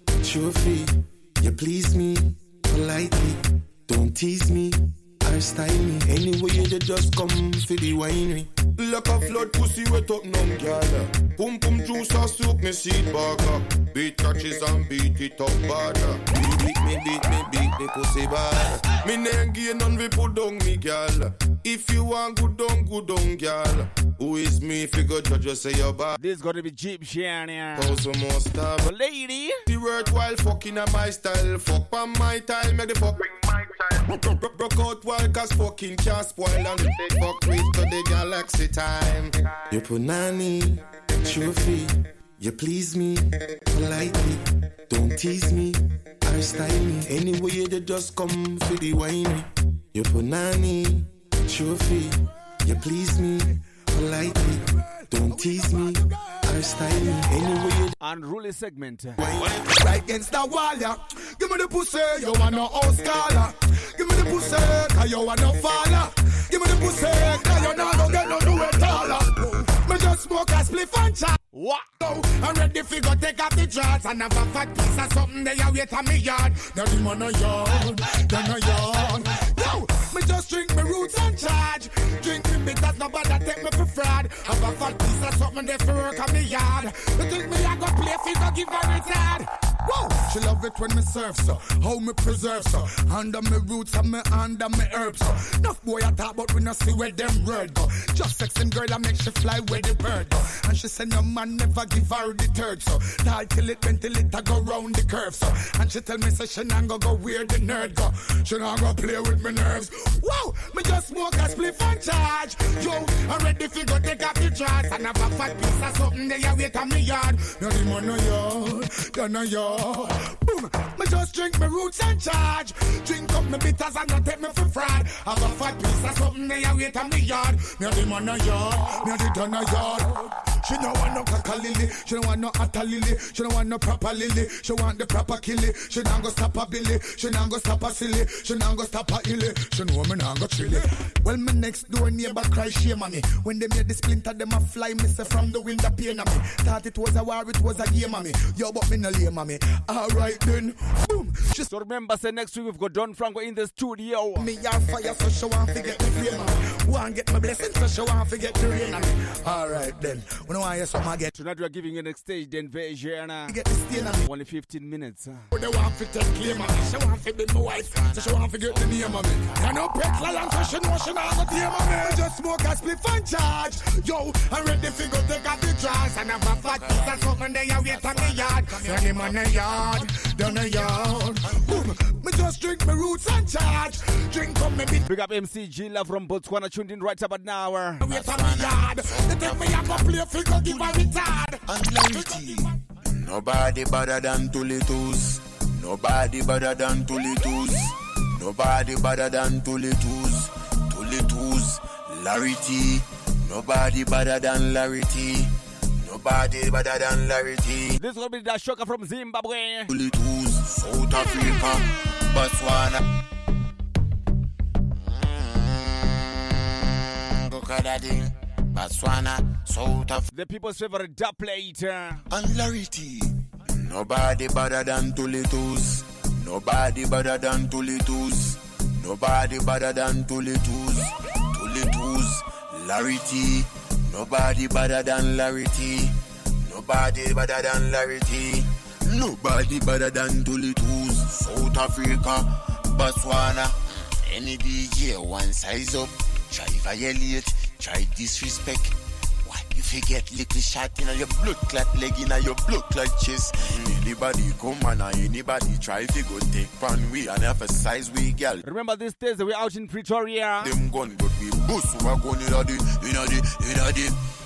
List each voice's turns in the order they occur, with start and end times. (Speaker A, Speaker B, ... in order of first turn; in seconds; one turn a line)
Speaker A: 6.0-8.1
Speaker A: 8.8-26.1
Speaker B: 26.1-28.1
Speaker A: 27.8-28.9
Speaker B: 28.8-29.6
Speaker A: 29.7-39.3
Speaker A: 47.1-48.2
Speaker B: 58.0-59.2
Speaker C: 59.7-71.4
Speaker B: 71.5-71.8
Speaker C: 72.0-151.6
Speaker B: 151.7-154.5
Speaker C: 154.4-161.3
Speaker B: 161.3-165.4
Speaker C: 163.5-164.1
Speaker C: 165.5-185.0
Speaker D: 168.1-169.0
Speaker D: 176.8-177.4
Speaker D: 177.9-179.9
Speaker D: 181.5-181.9
Speaker B: 185.1-188.0
Speaker C: 188.0-192.4
Speaker D: 188.0-208.0
Speaker B: 208.0-209.9
Speaker D: 209.9-213.1
Speaker D: 214.9-220.2
Speaker B: 220.3-222.2
Speaker D: 222.3-258.6
Speaker B: 258.6-260.7
Speaker D: 260.6-264.2